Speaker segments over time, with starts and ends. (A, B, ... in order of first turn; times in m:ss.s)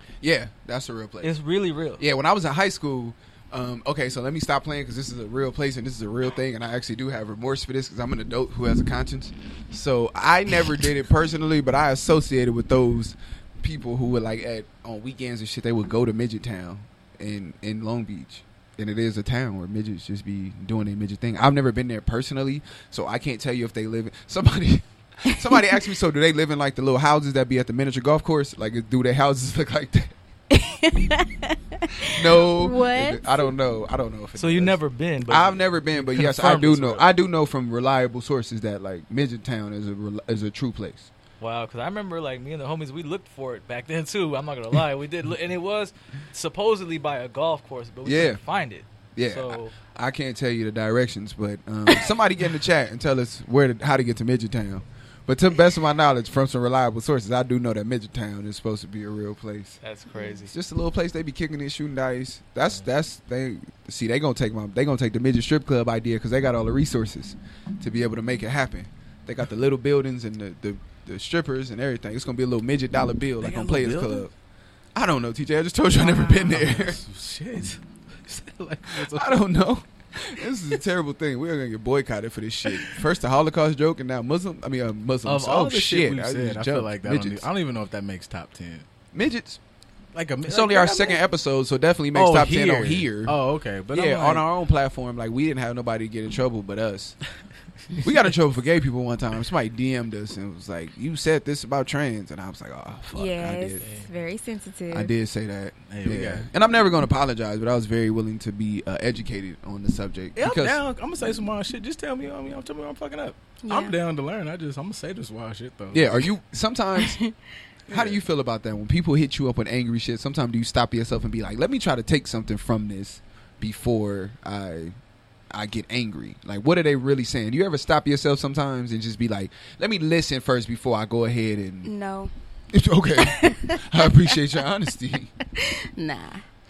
0:00.2-0:01.3 A
0:01.2-0:02.0 B
0:02.0-0:30.1 A
0:30.5-0:33.5 C
0:32.0-0:41.1 A
0:34.4-0:37.1 B
0:41.4-0:49.7 B
0:48.0-0:48.4 A
0:49.2-0:59.8 A
0:59.8-1:00.5 B
1:00.4-1:14.3 A
1:13.4-1:14.3 D
1:14.9-1:17.0 A
1:16.0-1:19.5 D
1:18.9-1:27.5 A
1:25.2-1:28.9 D
1:29.1-1:29.6 A
1:30.1-1:31.2 D
1:30.4-1:33.3 A
1:32.1-1:34.4 D
1:33.9-1:37.2 A
1:38.0-1:43.9 A
1:43.1-1:45.1 C
1:43.8-1:44.1 D
1:44.9-1:50.8 A
1:45.9-1:46.5 D
1:50.4-1:56.3 D
1:53.6-1:53.9 C
1:55.9-1:57.2 A
1:57.0-1:57.3 C
1:57.9-1:58.2 D
1:57.9-2:05.0 A
2:05.5-2:11.9 A
2:11.8-2:12.3 C
2:12.7-2:15.3 A
2:13.2-2:14.1 C
2:15.6-2:16.4 C